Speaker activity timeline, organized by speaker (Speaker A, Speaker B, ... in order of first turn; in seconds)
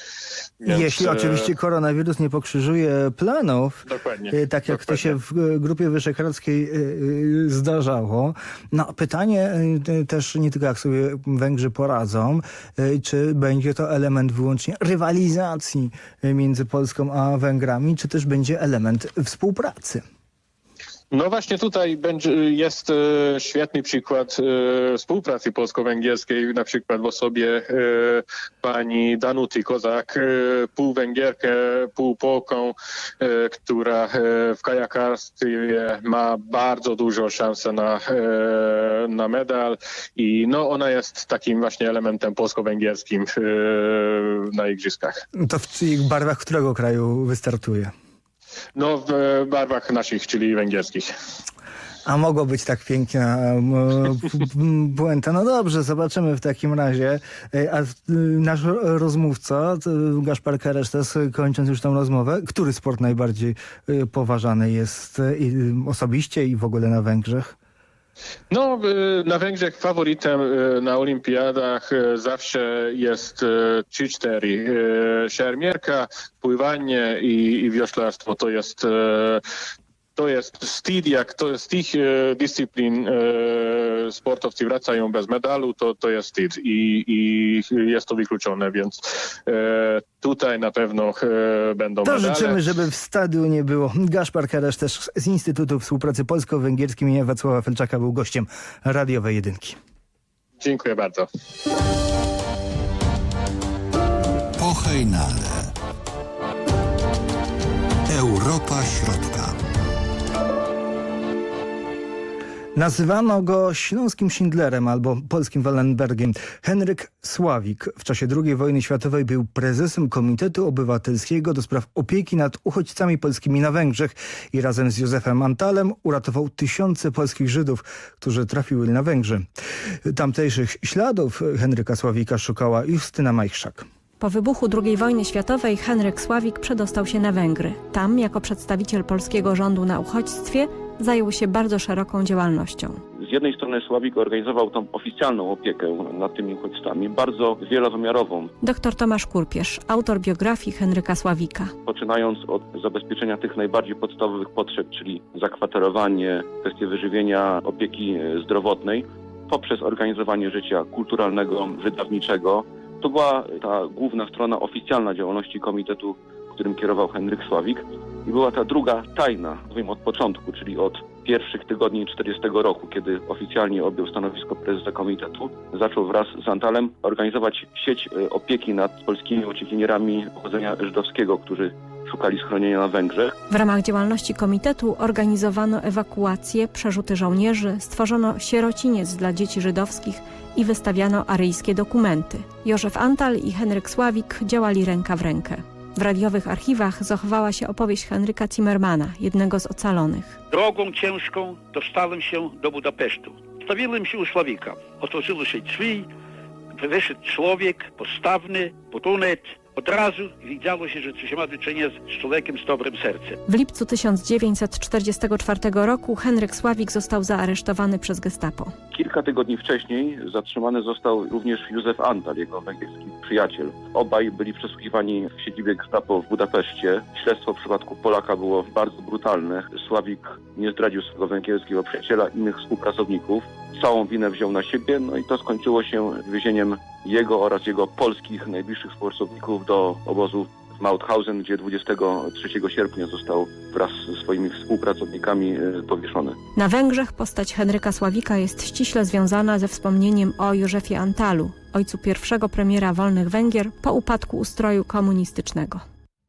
Speaker A: 0.6-1.5, 3.9-5.1, 21.1-45.2, 48.8-51.1, 68.5-79.4, 80.2-92.5, 100.6-101.2
Speaker B: 0.7-20.0, 45.4-47.9, 52.0-67.5, 92.0-99.8, 112.7-129.4, 130.1-133.8
Speaker C: 104.6-105.7, 108.1-109.5
Speaker D: 134.2-143.0, 148.6-151.7, 183.5-200.4, 213.5-218.7, 246.5-255.8
Speaker E: 143.2-148.5, 151.8-183.3, 218.9-246.3
Speaker F: 200.5-206.1, 206.8-213.4